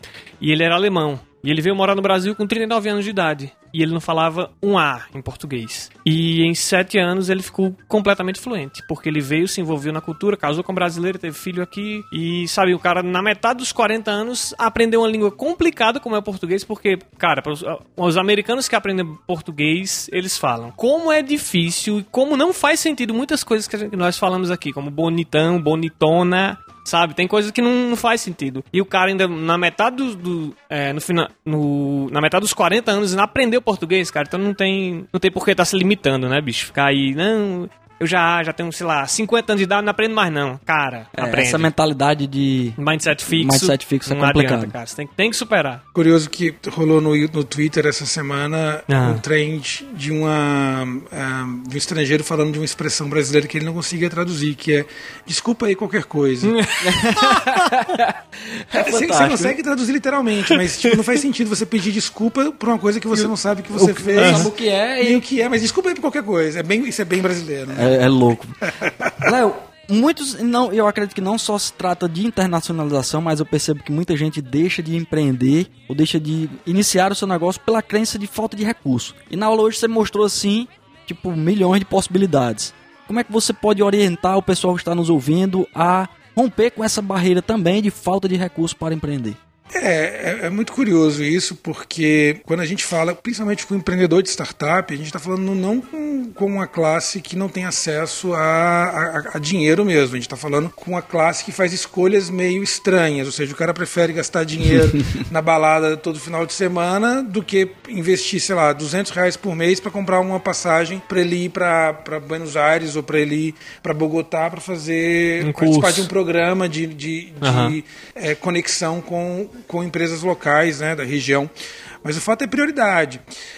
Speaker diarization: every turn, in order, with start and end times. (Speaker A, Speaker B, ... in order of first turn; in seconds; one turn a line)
Speaker A: 0.4-41.7
Speaker B: 41.1-44.7
Speaker A: 42.8-45.8
Speaker C: 45.9-56.6
Speaker A: 48.9-49.2
Speaker A: 56.4-57.9
Speaker B: 56.8-59.5
Speaker C: 58.7-64.5
Speaker B: 63.7-65.2
Speaker A: 64.2-64.5
Speaker C: 65.0-68.0
Speaker B: 67.7-68.6
Speaker C: 68.8-69.3
Speaker B: 69.2-89.4
Speaker C: 89.7-121.5
Speaker A: 115.4-116.1
Speaker A: 117.4-117.8
Speaker C: 122.0-123.2